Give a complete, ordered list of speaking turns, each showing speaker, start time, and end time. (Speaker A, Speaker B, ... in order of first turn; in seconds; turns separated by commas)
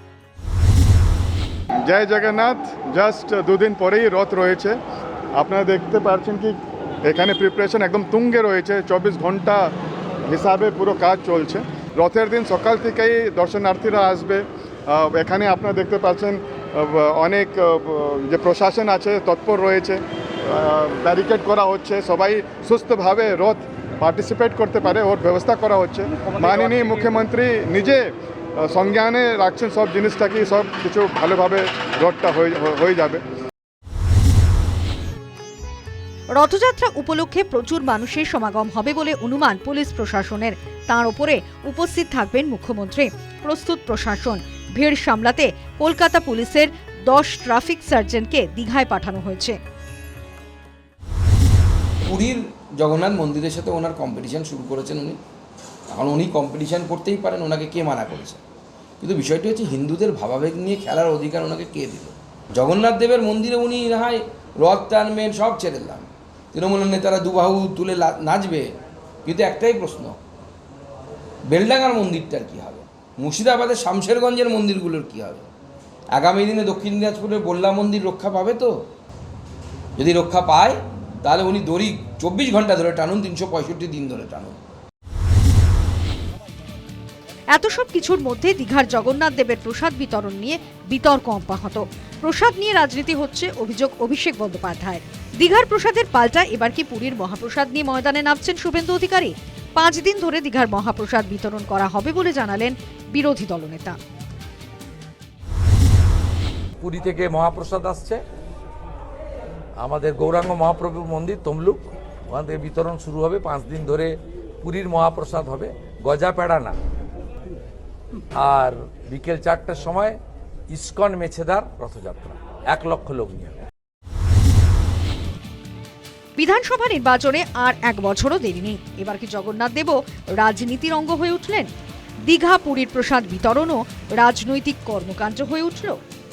Speaker A: 1.9-4.8, Speaker A: 5.3-9.7, Speaker A: 10.3-33.2, Speaker B: 36.3-49.6, Speaker C: 52.0-55.2, Speaker C: 55.9-58.4, Speaker C: 59.0-70.2, Speaker C: 71.5-75.5, Speaker C: 76.1-78.7, Speaker C: 80.0-84.6, Speaker B: 87.5-104.0, Speaker D: 106.8-108.2, Speaker D: 109.8-116.8, Speaker D: 118.4-120.2, Speaker D: 120.7-123.7, Speaker B: 126.4-131.7, Speaker B: 132.3-136.0